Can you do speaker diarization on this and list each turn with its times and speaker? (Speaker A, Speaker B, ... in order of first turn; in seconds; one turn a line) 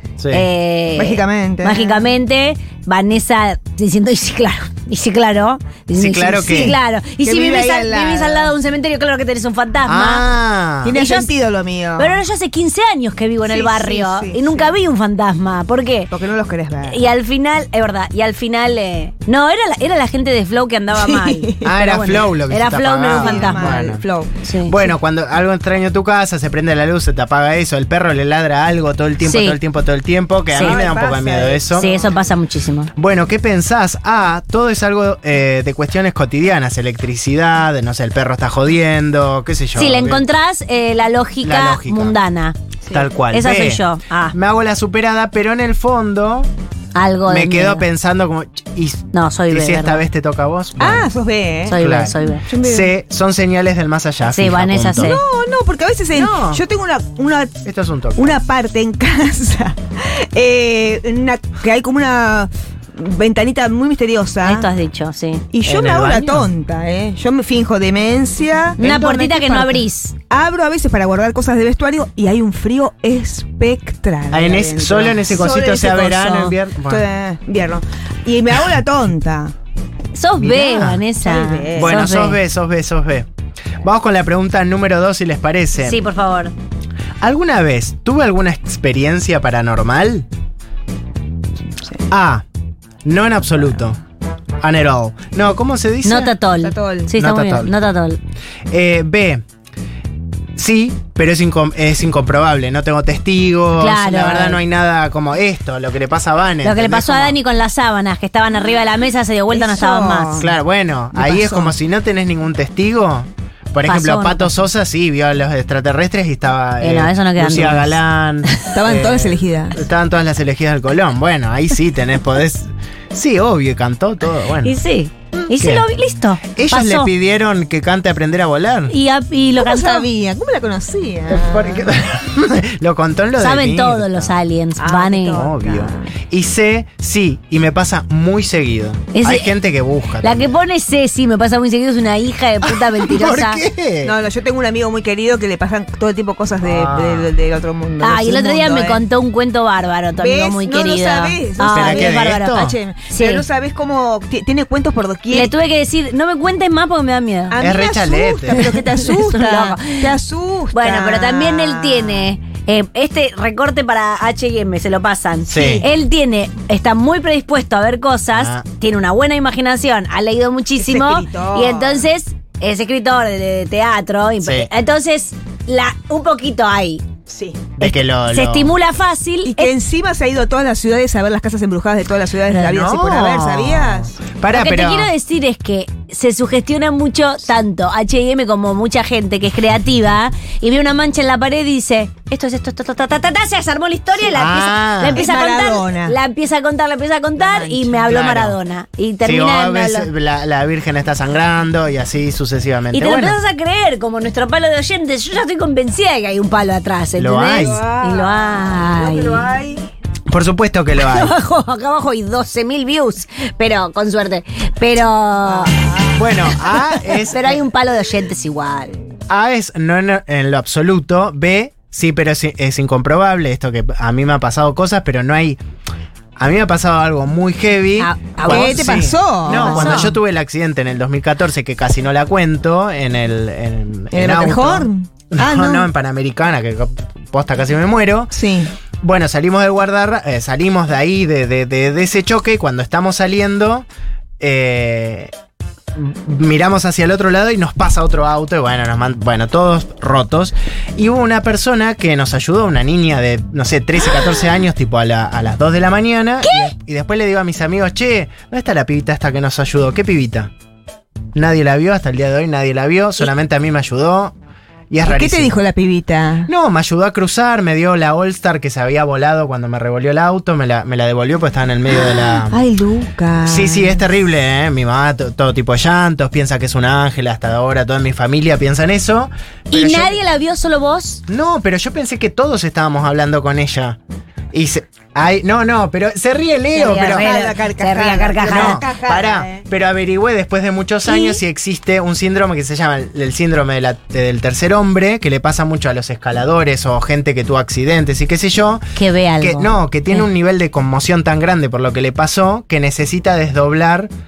Speaker A: 0.2-0.5
Speaker B: 0.3-10.3
Speaker C: 1.0-2.1
Speaker A: 5.9-6.8
Speaker C: 7.2-8.5
Speaker A: 9.8-10.9
Speaker C: 10.8-12.2
Speaker B: 10.9-11.3
Speaker B: 12.0-16.1
Speaker C: 13.4-14.7
Speaker C: 16.1-17.0
Speaker B: 16.9-23.9
Speaker C: 20.9-21.7
Speaker A: 21.6-24.0
Speaker C: 23.1-24.3
Speaker B: 24.4-24.9
Speaker A: 24.6-31.9
Speaker B: 29.2-29.6
Speaker B: 30.5-30.8
Speaker C: 30.5-32.3
Speaker B: 31.7-32.9
Speaker A: 33.0-40.3
Speaker B: 39.8-42.5
Speaker A: 41.4-42.2
Speaker A: 42.9-46.5
Speaker B: 43.3-44.4
Speaker B: 46.9-47.9
Speaker A: 47.3-51.1
Speaker B: 49.1-50.0
Speaker C: 50.8-52.9
Speaker B: 51.7-52.5
Speaker A: 51.7-55.2
Speaker B: 54.3-55.2
Speaker C: 55.0-57.6
Speaker A: 56.1-56.6
Speaker A: 57.6-58.4
Speaker C: 58.1-64.7
Speaker B: 64.4-65.4
Speaker C: 65.5-79.5
Speaker A: 65.6-66.5
Speaker B: 68.8-70.1
Speaker A: 74.3-77.0
Speaker B: 80.1-82.4
Speaker A: 80.4-81.0
Speaker C: 81.2-82.1
Speaker A: 81.7-83.3
Speaker A: 83.8-86.0
Speaker B: 85.8-86.5
Speaker A: 87.2-90.3
Speaker A: 92.1-92.4
Speaker A: 93.0-94.0
Speaker A: 94.6-96.3
Speaker B: 96.0-98.2
Speaker C: 96.6-97.1
Speaker A: 97.1-97.7
Speaker A: 98.7-99.4
Speaker A: 100.6-107.4
Speaker B: 103.8-104.6
Speaker B: 106.6-110.4
Speaker C: 109.5-110.5
Speaker A: 110.3-124.7
Speaker C: 111.1-111.7
Speaker B: 113.8-114.5
Speaker B: 116.8-118.6
Speaker C: 118.7-119.8
Speaker B: 124.6-127.1
Speaker A: 125.3-125.9
Speaker A: 126.5-128.9
Speaker B: 128.9-130.1
Speaker C: 129.6-132.0
Speaker A: 131.3-134.3
Speaker B: 133.4-135.4
Speaker C: 134.8-136.1
Speaker A: 135.3-140.5
Speaker B: 139.1-139.5
Speaker B: 140.2-143.6
Speaker A: 142.6-144.1
Speaker C: 144.0-149.0
Speaker A: 146.6-147.3
Speaker B: 148.0-153.4
Speaker C: 150.2-155.5
Speaker A: 151.7-152.8
Speaker B: 155.3-157.7
Speaker C: 157.5-162.3
Speaker A: 157.6-158.7
Speaker B: 158.6-160.1
Speaker B: 160.7-177.0
Speaker C: 165.5-165.9
Speaker A: 165.5-165.9
Speaker A: 168.3-168.6
Speaker C: 170.8-172.1
Speaker A: 174.4-174.7
Speaker C: 177.3-177.7
Speaker A: 177.8-178.8
Speaker B: 177.8-179.7
Speaker C: 179.4-184.2
Speaker A: 182.5-185.1
Speaker B: 184.5-200.1
Speaker A: 194.3-195.2
Speaker C: 195.1-196.1
Speaker C: 197.4-198.1
Speaker A: 198.1-198.6
Speaker A: 199.2-203.4
Speaker B: 202.9-209.5
Speaker A: 207.1-207.8
Speaker C: 207.6-209.8
Speaker A: 210.3-211.3
Speaker B: 211.0-215.9
Speaker C: 215.4-216.2
Speaker A: 216.1-217.6
Speaker B: 216.4-218.9
Speaker A: 219.3-225.6
Speaker A: 226.4-238.3
Speaker B: 228.0-230.2
Speaker C: 228.4-230.0
Speaker C: 234.1-235.9
Speaker C: 238.3-238.7
Speaker A: 239.0-243.8
Speaker A: 244.4-245.3
Speaker A: 245.9-260.5
Speaker B: 256.4-256.7
Speaker A: 261.3-264.3
Speaker A: 264.9-265.6
Speaker C: 265.0-266.5
Speaker A: 266.4-272.6
Speaker C: 271.9-274.0
Speaker A: 273.4-280.2
Speaker B: 279.7-281.2
Speaker A: 281.3-284.0
Speaker A: 284.5-287.3
Speaker B: 286.7-288.8
Speaker C: 286.8-289.6
Speaker A: 288.4-298.8
Speaker B: 291.1-291.4
Speaker B: 298.9-300.3
Speaker A: 299.4-304.1